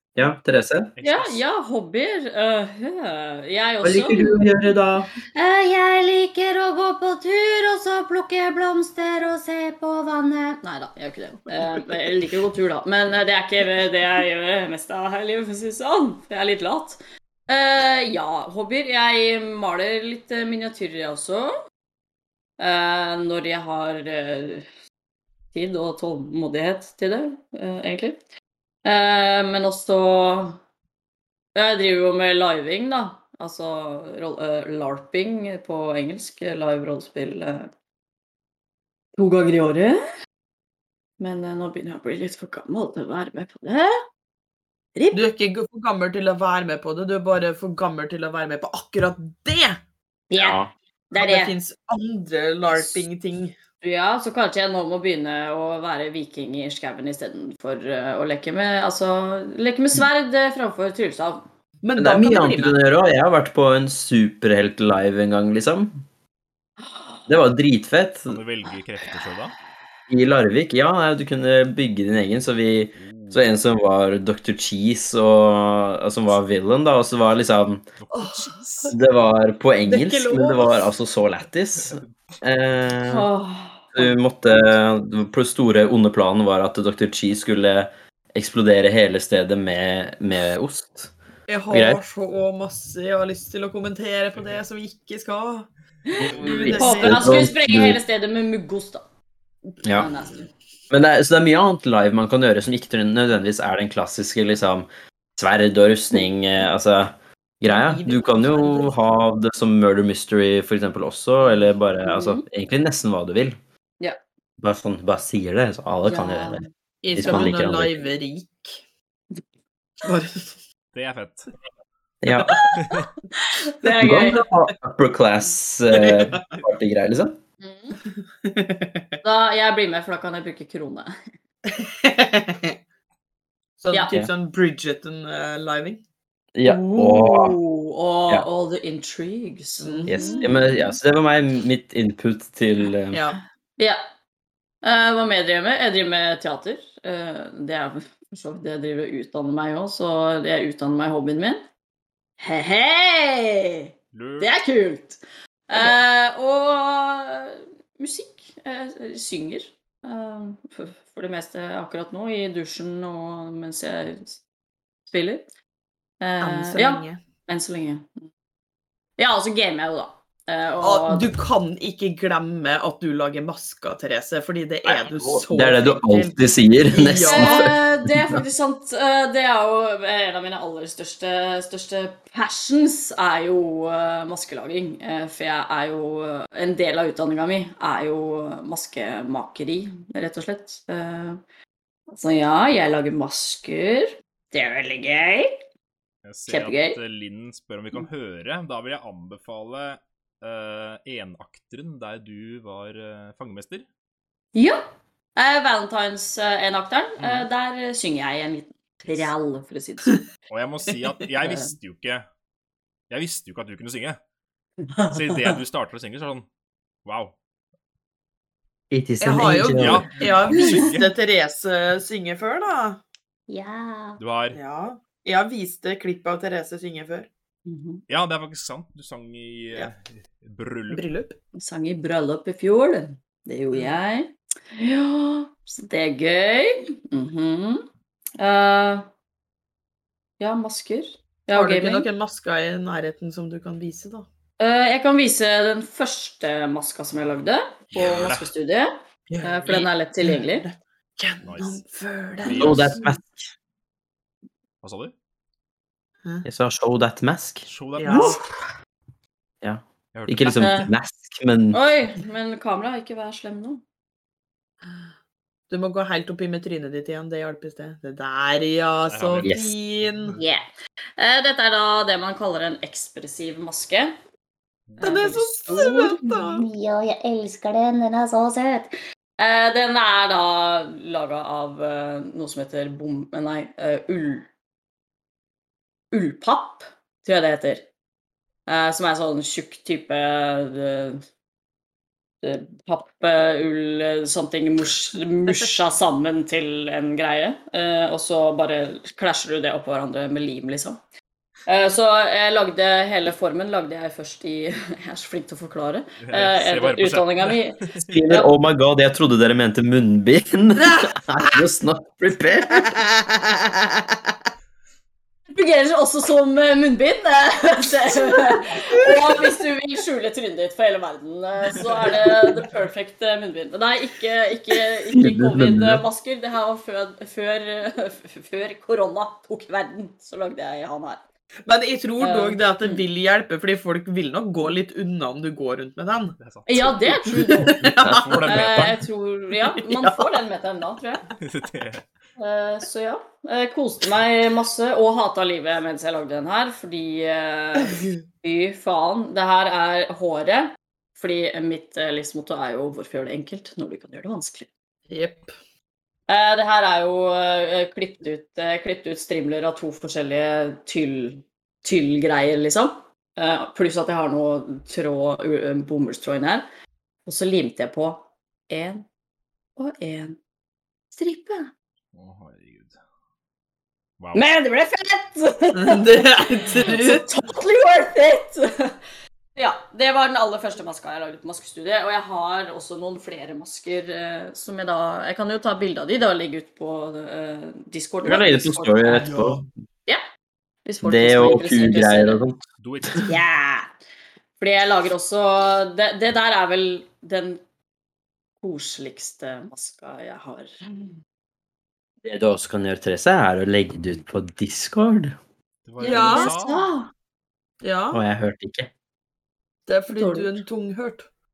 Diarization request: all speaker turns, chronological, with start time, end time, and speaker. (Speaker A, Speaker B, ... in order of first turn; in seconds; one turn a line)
Speaker A: 0.1-0.9
Speaker B: 1.0-1.4
Speaker C: 1.0-4.4
Speaker A: 3.8-5.1
Speaker D: 5.3-10.6
Speaker C: 10.6-21.5
Speaker C: 22.6-24.7
Speaker C: 25.5-28.2
Speaker C: 28.8-30.6
Speaker C: 31.6-37.7
Speaker C: 39.2-40.0
Speaker C: 41.2-44.0
Speaker C: 45.0-45.3
Speaker E: 45.1-49.8
Speaker C: 50.3-50.6
Speaker A: 50.3-50.7
Speaker C: 51.1-51.5
Speaker E: 51.2-53.5
Speaker C: 52.7-53.0
Speaker C: 53.8-61.5
Speaker E: 61.8-62.8
Speaker A: 62.0-66.0
Speaker C: 66.8-67.3
Speaker A: 67.3-68.4
Speaker B: 68.3-69.6
Speaker A: 70.1-77.9
Speaker B: 73.0-73.5
Speaker B: 78.0-79.0
Speaker E: 78.2-78.5
Speaker A: 78.9-83.3
Speaker E: 79.9-80.9
Speaker B: 81.8-82.1
Speaker C: 83.1-84.1
Speaker A: 83.9-91.1
Speaker E: 91.5-95.7
Speaker A: 91.7-92.0
Speaker C: 96.1-99.0
Speaker E: 96.2-97.5
Speaker A: 96.3-98.0
Speaker A: 99.8-100.1
Speaker C: 99.9-100.5
Speaker A: 100.9-104.9
Speaker A: 105.4-113.6
Speaker E: 107.7-109.0
Speaker C: 111.4-112.4
Speaker A: 114.6-116.6
Speaker C: 116.1-116.7
Speaker E: 117.0-118.8
Speaker A: 117.1-118.0
Speaker E: 120.0-120.6
Speaker B: 120.9-121.5
Speaker A: 122.2-122.7
Speaker B: 122.8-123.0
Speaker C: 123.3-124.4
Speaker A: 124.0-127.4
Speaker E: 125.9-126.4
Speaker C: 127.6-128.0
Speaker E: 128.3-129.1
Speaker C: 129.2-131.1
Speaker E: 131.7-132.8
Speaker E: 133.8-136.0
Speaker C: 133.9-134.2
Speaker A: 136.6-137.6
Speaker C: 136.7-141.0
Speaker E: 139.8-140.5
Speaker A: 140.1-143.2
Speaker E: 143.1-143.4
Speaker C: 144.8-151.6
Speaker C: 152.4-164.4
Speaker B: 154.1-154.5
Speaker C: 165.1-165.4
Speaker C: 166.2-168.3
Speaker E: 166.4-167.2
Speaker C: 169.2-171.3
Speaker E: 170.8-176.4
Speaker A: 174.8-178.4
Speaker E: 176.9-177.7
Speaker C: 177.2-191.4
Speaker C: 192.1-195.6
Speaker B: 196.2-203.9
Speaker C: 196.5-197.0
Speaker C: 204.6-204.8
Speaker C: 205.4-210.2
Speaker B: 207.2-207.5
Speaker B: 210.5-212.2
Speaker C: 211.4-211.8
Speaker B: 213.1-214.2
Speaker C: 214.9-215.6
Speaker B: 215.1-216.5
Speaker B: 217.1-217.3
Speaker A: 218.9-220.1
Speaker E: 219.2-223.0
Speaker B: 219.7-221.1
Speaker D: 223.5-224.2
Speaker B: 224.2-224.6
Speaker E: 224.5-227.3
Speaker C: 227.7-228.0
Speaker B: 228.1-231.0
Speaker E: 230.9-231.4
Speaker C: 231.6-237.9
Speaker E: 233.7-234.0
Speaker C: 238.4-239.1
Speaker C: 240.4-242.1
Speaker E: 241.5-244.3
Speaker C: 244.6-250.7
Speaker B: 247.9-248.5
Speaker E: 249.3-253.1
Speaker B: 251.4-251.8
Speaker B: 252.4-253.0
Speaker A: 252.5-253.5
Speaker B: 254.8-255.1
Speaker A: 256.4-257.7
Speaker B: 257.7-258.4
Speaker E: 258.0-258.4
Speaker A: 259.6-261.8
Speaker B: 260.1-260.9
Speaker C: 260.5-260.9
Speaker C: 261.7-263.8
Speaker E: 265.7-270.4
Speaker B: 269.1-270.4
Speaker A: 269.4-269.7
Speaker C: 271.2-274.1
Speaker B: 274.9-275.3
Speaker C: 275.0-276.2
Speaker E: 275.0-276.6
Speaker D: 275.9-278.9
Speaker C: 279.4-284.5
Speaker C: 286.1-287.9
Speaker C: 288.7-291.2
Speaker C: 292.4-301.0
Speaker E: 295.5-295.7
Speaker C: 301.7-308.5
Speaker B: 306.2-308.1
Speaker A: 308.0-313.4
Speaker C: 315.5-331.2
Speaker E: 318.8-319.4
Speaker A: 325.1-326.0
Speaker E: 331.7-336.4
Speaker C: 332.2-333.1
Speaker B: 336.4-337.1
Speaker C: 336.7-337.7
Speaker E: 337.2-338.9
Speaker B: 337.8-339.0
Speaker A: 338.1-338.3
Speaker C: 338.5-341.3
Speaker E: 339.7-340.4
Speaker B: 341.4-342.1
Speaker C: 342.4-354.7
Speaker E: 355.1-355.5
Speaker C: 356.3-366.7
Speaker C: 367.3-369.1
Speaker C: 369.8-370.4
Speaker C: 371.1-371.7
Speaker B: 372.1-373.0
Speaker B: 374.2-374.4
Speaker C: 374.4-379.0
Speaker E: 375.8-377.3
Speaker C: 379.6-389.3
Speaker A: 388.2-389.7
Speaker E: 389.2-389.6
Speaker C: 390.9-392.4
Speaker A: 391.0-392.6
Speaker B: 392.8-393.3
Speaker C: 393.3-393.9
Speaker C: 394.6-397.6
Speaker C: 398.6-400.8
Speaker A: 402.2-405.4
Speaker B: 405.9-406.9
Speaker C: 406.0-407.1
Speaker E: 406.0-406.5
Speaker E: 407.8-408.2
Speaker A: 408.1-408.9
Speaker E: 409.9-411.3
Speaker C: 410.1-410.6